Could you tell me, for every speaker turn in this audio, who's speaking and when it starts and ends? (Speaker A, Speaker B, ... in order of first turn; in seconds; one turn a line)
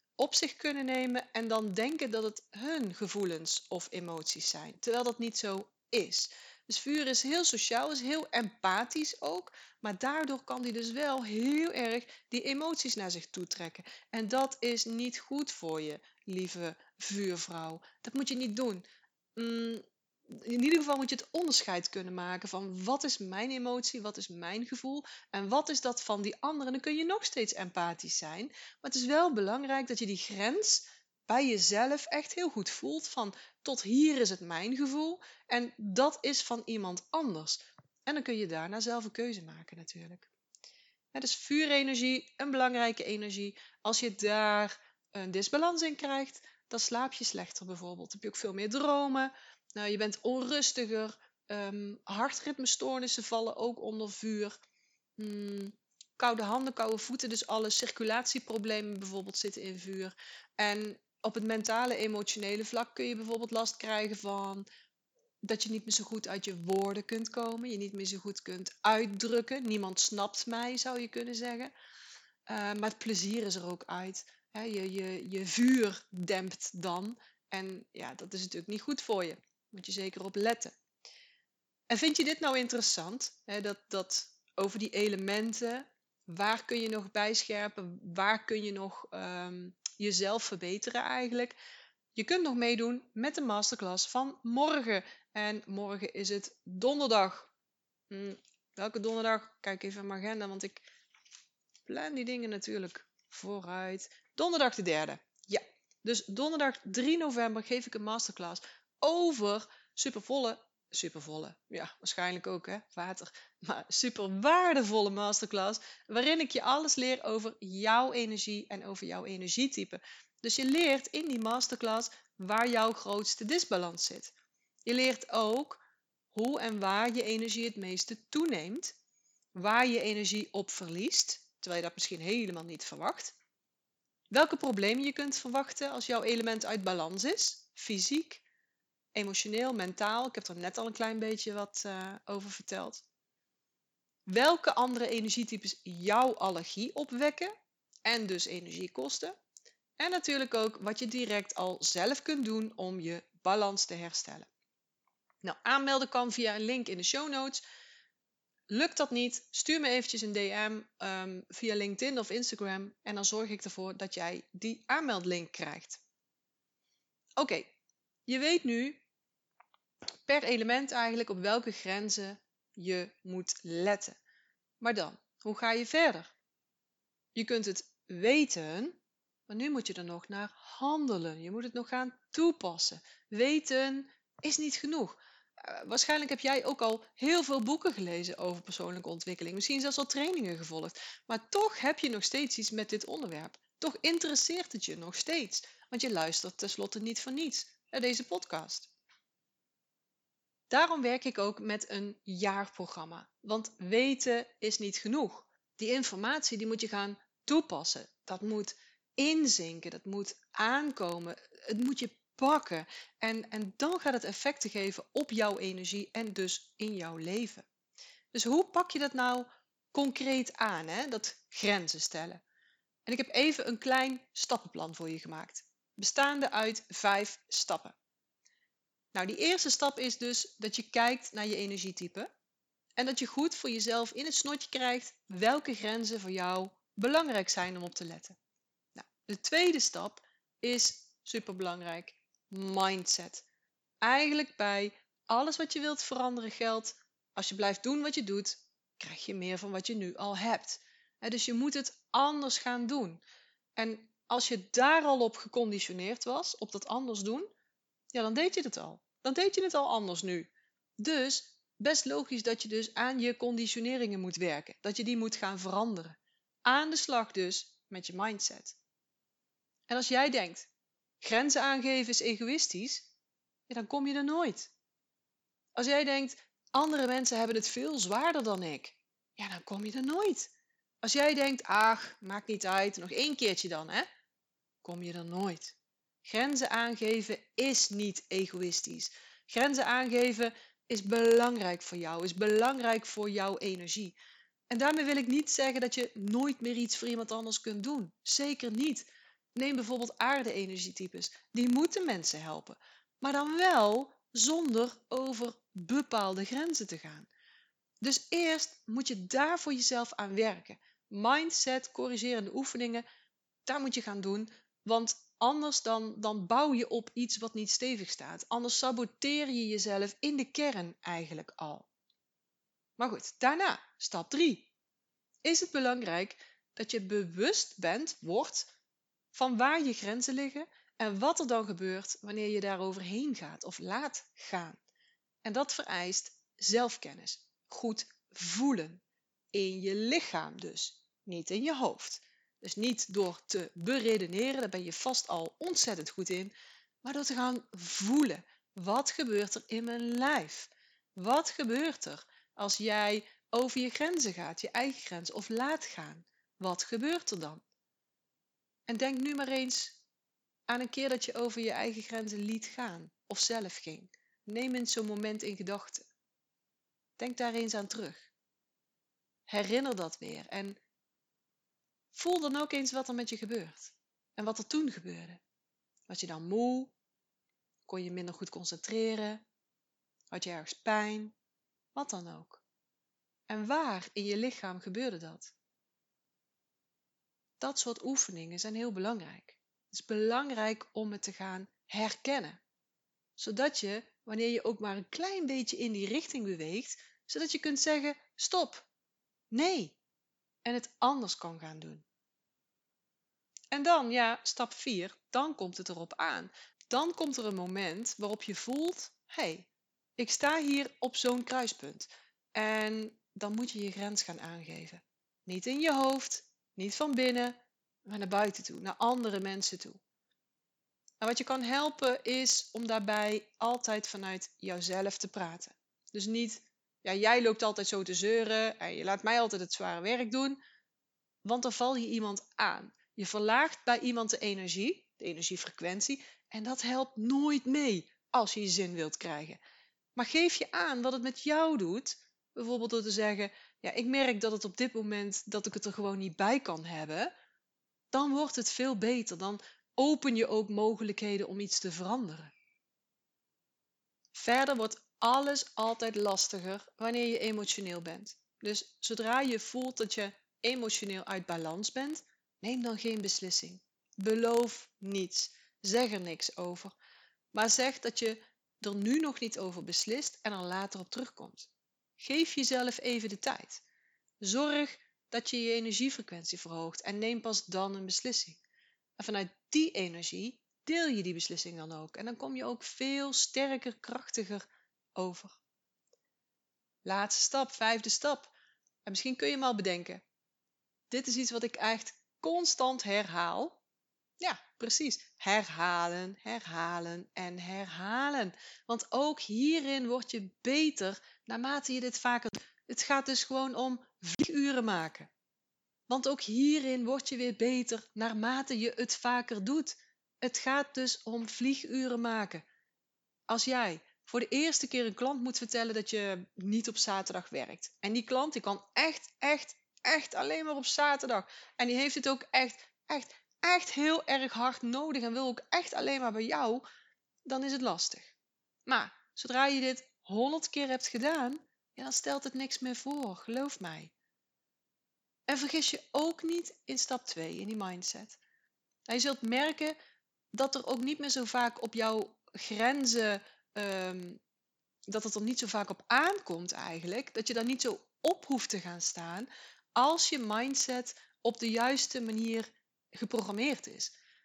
Speaker A: 0.2-40.3
Speaker A: 41.1-54.5
Speaker A: 55.2-64.7
Speaker A: 65.4-71.7
Speaker A: 72.5-80.8
Speaker A: 81.9-91.6
Speaker A: 92.2-97.5
Speaker A: 98.1-100.8
Speaker A: 101.9-124.3
Speaker A: 124.9-125.8
Speaker A: 126.3-128.9
Speaker A: 129.6-133.3
Speaker A: 134.3-138.4
Speaker A: 139.1-143.1
Speaker A: 144.3-147.5
Speaker A: 148.1-149.3
Speaker A: 150.0-154.5
Speaker A: 155.4-157.6
Speaker A: 158.7-166.0
Speaker A: 167.4-167.7
Speaker A: 168.3-169.0
Speaker A: 170.3-174.2
Speaker A: 174.8-176.3
Speaker A: 177.3-198.9
Speaker A: 200.7-217.7
Speaker A: 218.3-222.4
Speaker A: 223.1-228.0
Speaker A: 229.1-232.3
Speaker A: 233.0-238.4
Speaker A: 239.0-243.4
Speaker A: 244.0-253.2
Speaker A: 253.8-257.5
Speaker A: 258.1-268.8
Speaker A: 269.9-270.7
Speaker A: 271.2-273.1
Speaker A: 273.7-274.7
Speaker A: 275.8-284.1
Speaker A: 284.8-294.2
Speaker A: 294.7-307.3
Speaker A: 308.0-313.1
Speaker A: 313.7-321.9
Speaker A: 323.0-324.7
Speaker A: 325.4-328.7
Speaker A: 329.3-334.8
Speaker A: 335.4-339.0
Speaker A: 339.5-357.6
Speaker A: 358.9-360.0
Speaker A: 360.7-366.1
Speaker A: 367.2-368.3
Speaker A: 369.5-370.8
Speaker A: 372.1-375.4
Speaker A: 376.1-376.9
Speaker A: 377.9-379.4
Speaker A: 380.3-381.4
Speaker A: 381.9-382.6
Speaker A: 383.5-385.5
Speaker A: 387.6-392.6
Speaker A: 393.4-398.9
Speaker A: 399.5-400.0
Speaker A: 400.6-402.1
Speaker A: 403.7-420.0
Speaker A: 421.2-430.6
Speaker A: 431.4-439.6
Speaker A: 440.2-447.3
Speaker A: 448.1-452.5
Speaker A: 454.3-466.9
Speaker A: 467.5-473.8
Speaker A: 474.4-478.6
Speaker A: 479.2-485.6
Speaker A: 487.1-488.5
Speaker A: 489.1-490.2
Speaker A: 491.1-493.8
Speaker A: 494.4-505.3
Speaker A: 506.1-512.6
Speaker A: 513.5-526.8
Speaker A: 527.5-528.4
Speaker A: 528.9-534.1
Speaker A: 535.5-538.4
Speaker A: 539.1-540.0
Speaker A: 540.5-544.4
Speaker A: 545.1-554.1